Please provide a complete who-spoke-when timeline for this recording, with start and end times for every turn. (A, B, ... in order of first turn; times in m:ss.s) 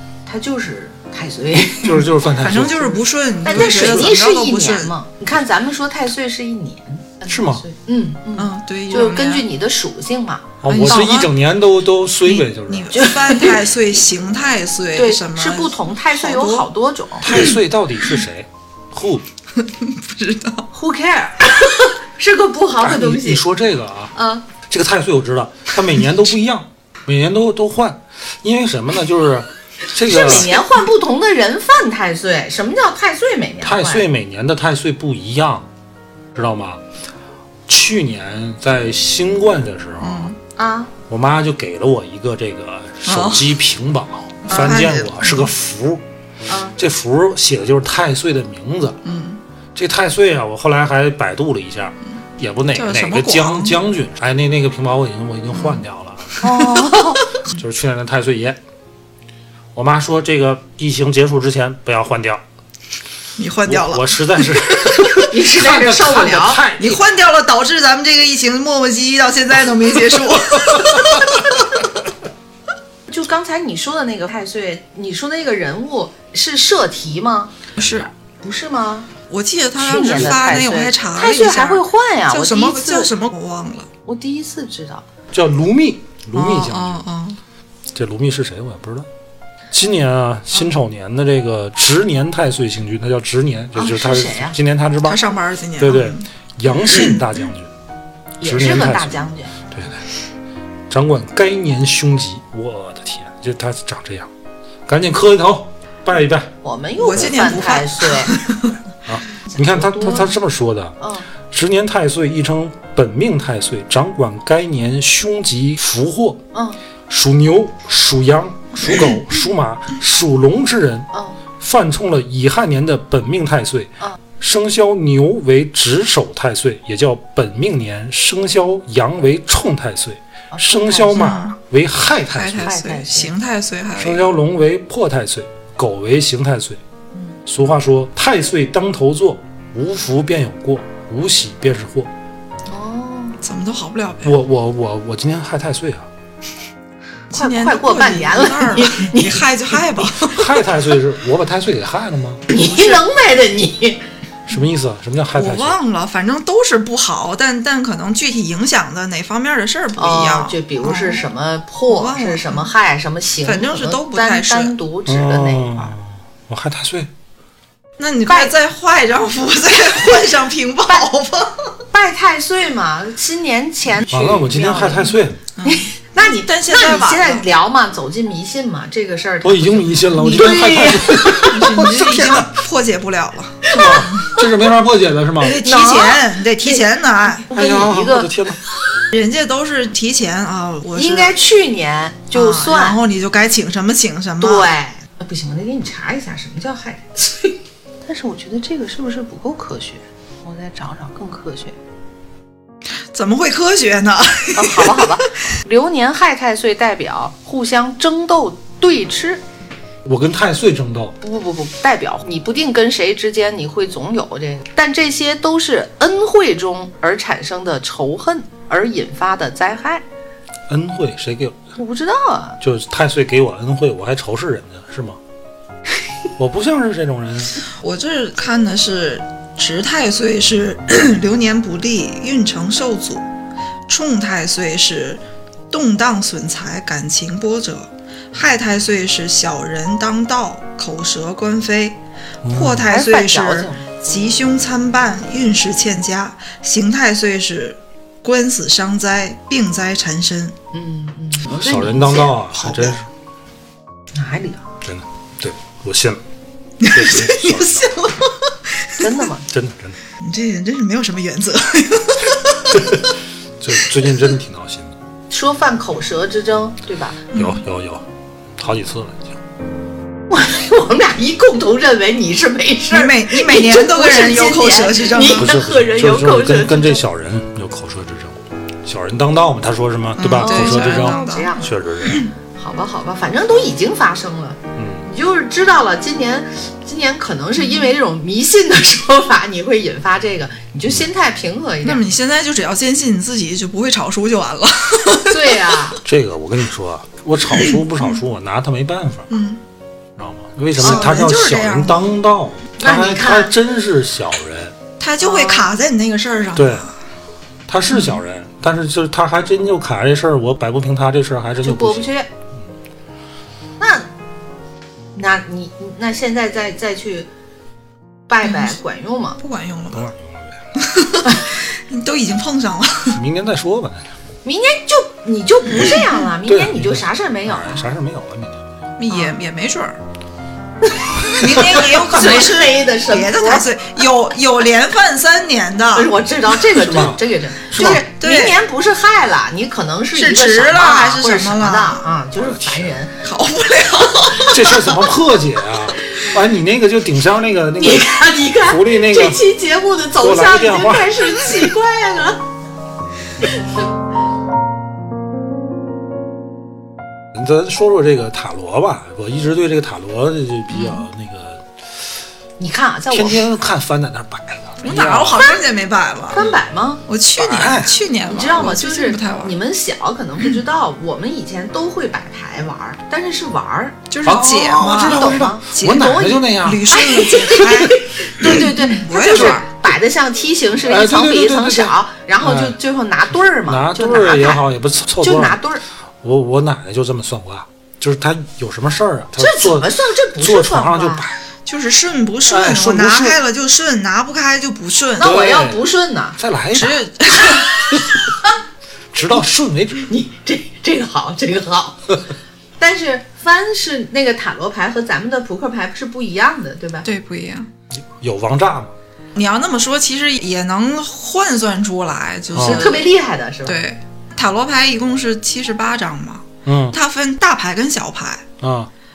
0:00.2-0:02.1 A
0:01.8-0:03.0 B
0:02.0-0:04.9 C
0:03.4-0:10.6 A
0:03.5-0:04.1 B
0:07.3-0:07.6 B
0:08.4-0:09.4 C
0:10.6-0:13.0 B
0:10.7-0:11.3 C
0:12.3-0:16.7 C
0:12.9-0:13.6 A
0:14.9-0:17.3 A
0:17.2-0:19.2 B
0:17.2-0:17.6 C
0:19.6-0:20.7 C
0:20.7-0:23.4 A
0:22.8-0:30.6 B
0:24.1-0:24.4 A
0:30.0-0:34.0 A
0:33.6-0:35.7 B
0:36.3-0:36.8 B
0:37.7-0:40.3 B
0:40.0-0:40.4 C
0:40.6-0:40.9 A
0:41.1-0:46.0 B
0:43.0-0:43.5 C
0:44.4-0:45.5 C
0:44.5-0:44.7 A
0:46.5-0:46.8 A
0:46.8-0:49.0 B
0:49.0-0:49.4 C
0:49.7-0:56.4 B
0:52.7-0:53.8 C
0:55.5-0:55.8 C
0:56.4-0:57.3 A
0:56.4-0:57.1 C
0:57.5-0:58.6 B
0:59.7-1:02.4 B
1:03.4-1:05.2 C
1:03.6-1:07.0 B
1:05.2-1:06.6 A
1:06.8-1:11.6 C
1:10.6-1:11.4 B
1:13.1-1:17.5 A
1:17.8-1:18.1 C
1:18.4-1:19.1 A
1:19.3-1:23.9 C
1:19.8-1:23.1 A
1:20.0-1:20.4 B
1:24.0-1:25.0 A
1:25.3-1:27.0 B
1:26.3-1:27.4 C
1:27.9-1:29.1 B
1:29.7-1:35.2 B
1:33.7-1:34.6 A
1:35.0-1:36.2 C
1:35.8-1:37.7 B
1:36.8-1:37.2 C
1:38.4-1:39.5 A
1:38.4-1:40.0 B
1:40.9-1:44.3 B
1:44.9-1:46.5 B
1:46.6-1:48.4 A
1:47.0-1:48.8 C
1:49.0-1:51.0 B
1:49.5-1:50.3 A
1:51.0-1:51.3 A
1:51.5-1:56.4 B
1:56.5-1:56.8 A
1:57.1-2:01.1 B
2:01.1-2:01.4 A
2:01.6-2:12.8 B
2:10.5-2:11.4 A
2:11.1-2:11.6 C
2:12.3-2:14.3 C
2:12.6-2:13.3 A
2:14.0-2:16.8 B
2:17.4-2:22.1 B
2:22.7-2:23.4 A
2:23.4-2:24.4 C
2:24.2-2:26.1 B
2:27.3-2:30.6 C
2:27.3-2:29.4 A
2:30.3-2:32.4 B
2:32.5-2:34.0 A
2:32.5-2:33.0 C
2:34.5-2:35.8 B
2:35.3-2:41.2 C
2:40.0-2:45.9 A
2:41.9-2:42.7 C
2:43.4-2:44.8 C
2:45.1-2:47.1 B
2:48.0-2:51.7 C
2:48.3-2:48.5 A
2:51.9-3:01.8 A
2:54.1-2:55.4 B
2:55.5-2:57.5 C
2:59.4-3:02.6 B
3:01.4-3:04.4 C
3:03.6-3:04.4 A
3:03.7-3:05.6 B
3:05.4-3:07.5 C
3:05.4-3:06.8 A
3:07.4-3:08.3 A
3:07.5-3:08.6 B
3:09.1-3:11.4 C
3:10.9-3:13.0 A
3:12.3-3:14.7 C
3:14.4-3:21.8 A
3:23.1-3:25.1 C
3:24.5-3:29.4 A
3:30.0-3:31.2 B
3:31.2-3:40.0 A
3:40.7-3:41.6 B
3:41.8-3:42.6 A
3:42.6-3:45.2 B
3:46.4-3:47.6 B
3:47.8-3:53.2 C
3:53.9-4:10.5 C
4:02.4-4:02.8 B
4:02.8-4:03.8 A
4:10.7-4:12.4 A
4:11.5-4:13.1 B
4:14.1-4:14.7 A
4:14.8-4:16.2 B
4:16.8-4:19.1 C
4:16.9-4:18.0 B
4:19.0-4:19.5 A
4:19.5-4:20.0 B
4:20.2-4:23.1 C
4:22.7-4:23.1 B
4:23.6-4:25.0 B
4:25.3-4:27.3 A
4:27.3-4:27.6 C
4:27.3-4:28.0 B
4:28.6-4:29.4 B
4:30.3-4:37.0 A
4:32.9-4:35.5 C
4:35.4-4:42.3 B
4:40.2-4:42.3 C
4:40.4-4:41.7 A
4:42.6-4:52.0 A
4:44.8-4:45.0 B
4:51.8-4:55.8 C
4:55.1-4:56.0 A
4:56.0-4:59.3 B
4:59.3-4:59.6 C
5:00.2-5:04.8 B
5:00.8-5:02.2 C
5:00.8-5:01.1 A
5:02.8-5:03.5 A
5:05.0-5:06.9 C
5:05.2-5:05.7 A
5:06.5-5:06.9 B
5:07.7-5:12.1 B
5:11.6-5:12.3 A
5:13.8-5:14.1 A
5:15.1-5:17.3 A
5:18.3-5:19.4 A
5:18.4-5:18.8 C
5:19.4-5:20.0 C
5:19.9-5:20.6 B
5:20.8-5:23.2 C
5:23.1-5:24.1 B
5:24.4-5:27.9 A
5:26.4-5:28.7 B
5:29.0-5:30.0 C
5:31.1-5:33.7 A
5:31.2-5:36.1 C
5:35.9-5:43.2 A
5:36.7-5:38.0 B
5:37.7-5:38.6 C
5:40.1-5:42.0 C
5:42.4-5:42.9 B
5:43.2-5:45.0 C
5:44.5-5:49.4 B
5:47.8-5:52.4 A
5:50.2-5:51.2 B
5:53.4-5:53.9 A
5:57.3-6:01.7 B
6:00.7-6:01.0 A
6:02.6-6:03.4 A
6:03.1-6:05.4 B
6:04.8-6:06.5 C
6:06.3-6:07.0 A
6:07.1-6:09.6 C
6:07.4-6:08.0 B
6:08.3-6:14.0 A
6:14.1-6:19.6 C
6:14.2-6:17.0 B
6:14.8-6:24.6 A
6:19.3-6:19.6 B
6:20.8-6:22.8 B
6:23.6-6:25.6 B
6:25.2-6:25.8 A
6:26.2-6:31.4 B
6:29.4-6:31.2 A
6:31.6-6:35.4 C
6:32.4-6:33.4 B
6:35.2-6:36.4 A
6:35.2-6:35.8 B
6:36.4-6:37.0 B
6:36.7-6:38.0 C
6:37.4-6:38.5 A
6:39.1-6:40.1 B
6:40.1-6:42.2 A
6:42.8-6:47.1 A
6:47.0-6:47.7 C
6:48.0-6:48.9 B
6:49.4-6:53.1 C
6:52.5-6:52.9 B
6:52.6-6:53.8 A
6:53.6-6:58.4 C
6:56.6-6:57.0 B
6:58.6-6:58.9 B